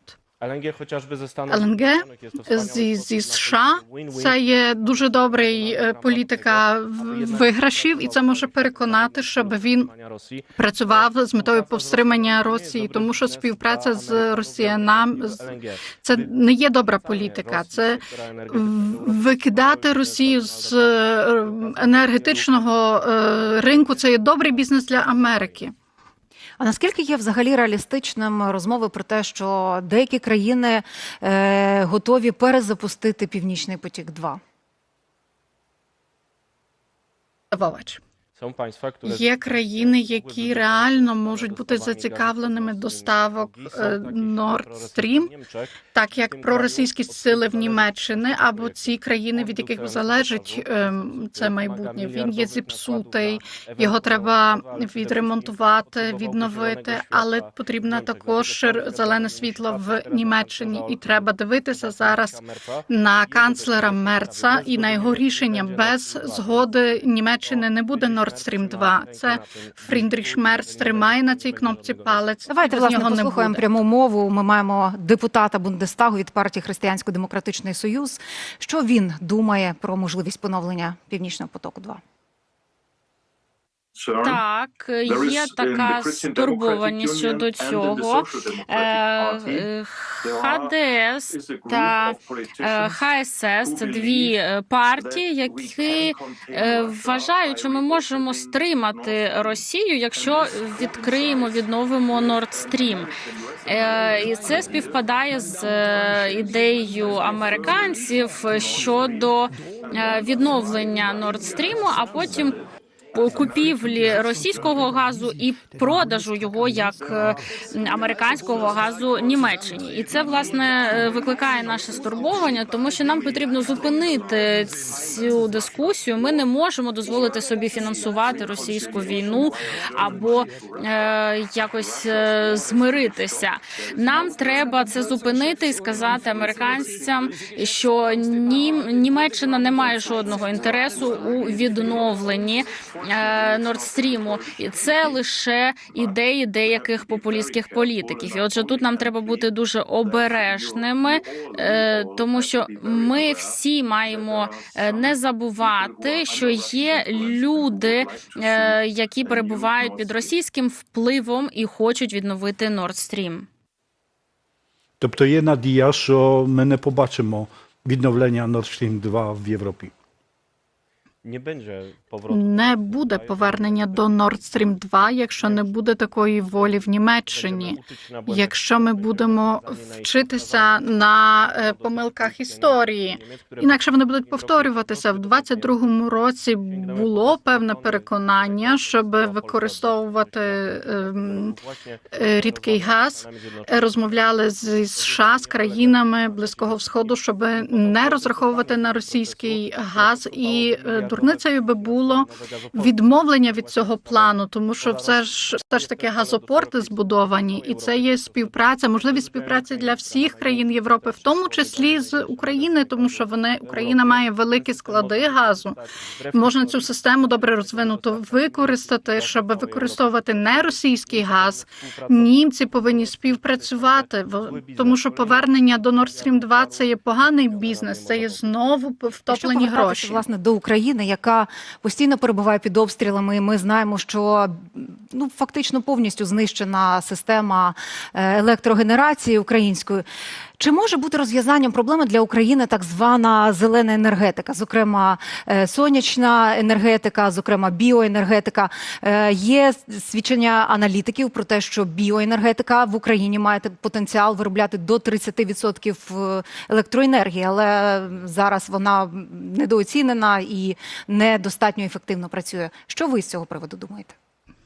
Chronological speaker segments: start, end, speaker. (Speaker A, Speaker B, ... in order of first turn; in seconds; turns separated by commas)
Speaker A: 0.4-15.9, Speaker B: 1.5-9.9, Speaker B: 10.6-25.7, Speaker A: 16.9-25.6, Speaker C: 26.6-34.4, Speaker B: 37.5-38.0, Speaker A: 38.4-72.2, Speaker B: 39.0-45.3, Speaker B: 45.9-73.7, Speaker C: 72.5-82.0, Speaker D: 84.1-103.1, Speaker D: 103.7-112.6, Speaker D: 113.1-163.4, Speaker E: 165.0-169.9, Speaker A: 171.2-173.8, Speaker B: 172.3-191.6, Speaker A: 177.3-180.8, Speaker A: 181.5-185.7, Speaker A: 186.7-194.3, Speaker B: 192.1-215.8, Speaker A: 194.9-197.2, Speaker A: 197.7-202.9, Speaker A: 203.6-205.2, Speaker A: 205.7-226.8, Speaker B: 216.3-230.2, Speaker A: 227.5-228.5, Speaker C: 229.3-240.0, Speaker C: 240.6-264.1